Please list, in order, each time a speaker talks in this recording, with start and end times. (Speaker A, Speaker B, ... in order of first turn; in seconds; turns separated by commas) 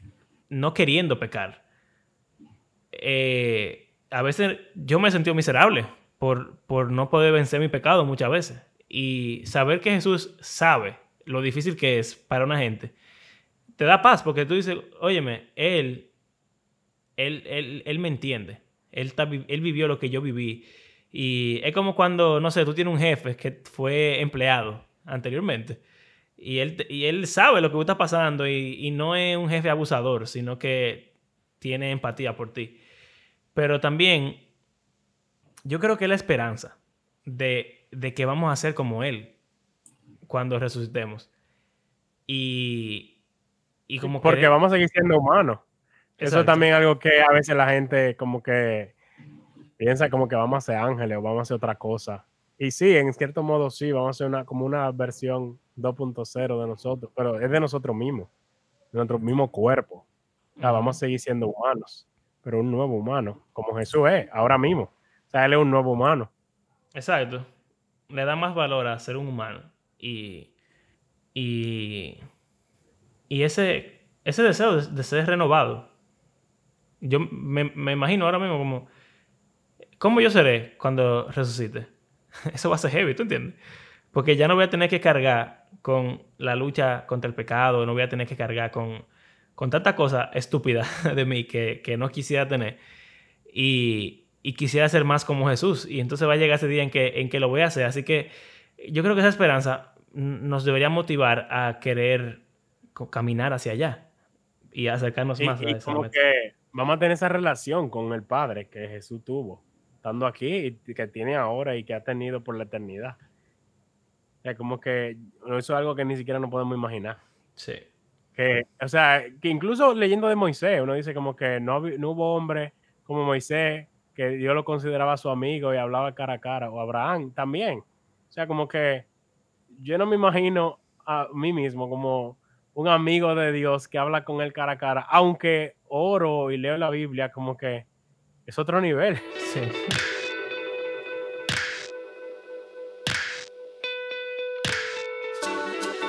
Speaker A: 0.5-1.6, Speaker A: 2.9-12.9, Speaker A: 13.8-16.1, Speaker A: 17.2-25.8, Speaker A: 26.4-31.1, Speaker A: 31.6-32.8, Speaker A: 33.5-34.5, Speaker A: 35.6-39.4, Speaker A: 40.3-41.3, Speaker A: 42.3-43.1, Speaker A: 43.9-44.6, Speaker B: 44.0-45.6, Speaker A: 46.2-46.7, Speaker B: 46.2-49.0, Speaker B: 49.8-58.3, Speaker B: 58.9-60.0, Speaker A: 60.6-61.0, Speaker B: 60.6-66.3, Speaker A: 66.9-67.5, Speaker A: 68.1-70.5, Speaker A: 71.3-72.2, Speaker A: 73.3-75.9, Speaker A: 77.0-78.9, Speaker A: 80.0-81.9, Speaker A: 82.5-83.6, Speaker A: 84.1-92.8, Speaker A: 93.5-102.4, Speaker A: 103.0-104.1, Speaker A: 104.7-106.2, Speaker B: 105.4-113.2, Speaker B: 114.4-117.2, Speaker A: 117.6-117.8, Speaker B: 118.4-129.1, Speaker B: 129.7-137.9, Speaker B: 138.5-139.3, Speaker A: 139.4-139.9